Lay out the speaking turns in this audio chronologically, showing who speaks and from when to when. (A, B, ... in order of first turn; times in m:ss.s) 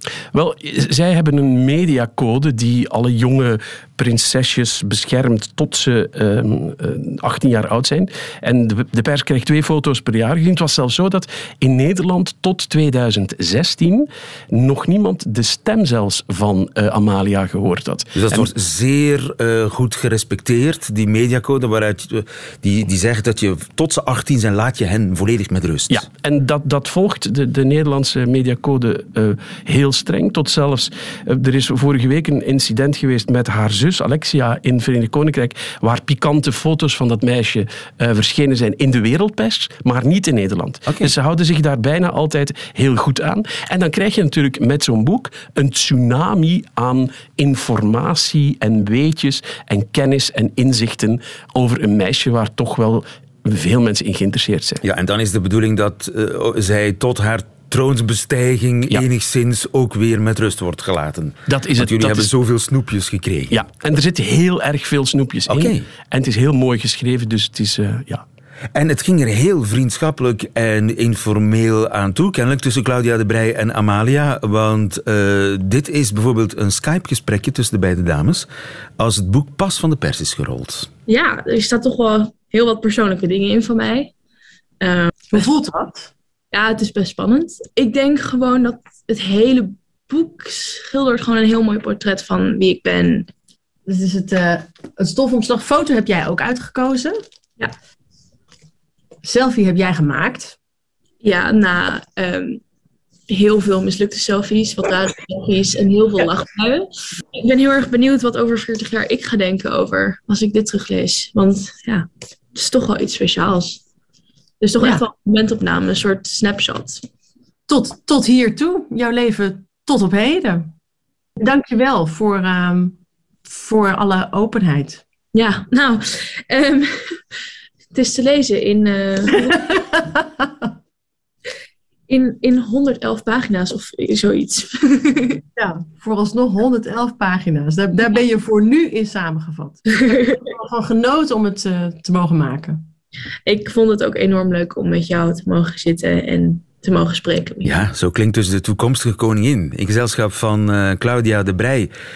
0:00.3-0:18.5 A
0:18.1-0:26.1 B
0:25.9-0:54.8 A
0:40.8-0:41.1 B
0:54.8-1:03.6 B
1:01.5-1:02.3 A
1:03.5-1:08.2 A
1:05.5-1:05.9 B
1:08.7-1:20.9 B
1:21.1-1:24.1 C
1:24.8-1:25.5 C
1:25.3-1:26.1 D
1:26.5-1:33.3 C
1:33.8-1:37.2 D
1:39.2-1:40.6 D
1:41.2-1:42.6 C
1:43.3-1:53.8 C
1:54.6-1:57.0 C
1:57.7-2:00.7 D
2:01.4-2:05.0 D
2:05.3-2:07.2 C
2:07.9-2:09.6 C
2:09.5-2:10.7 D
2:12.1-2:15.4 C
2:15.6-2:22.8 D
2:20.0-2:20.4 C
2:23.4-2:27.8 C
2:27.6-2:31.9 B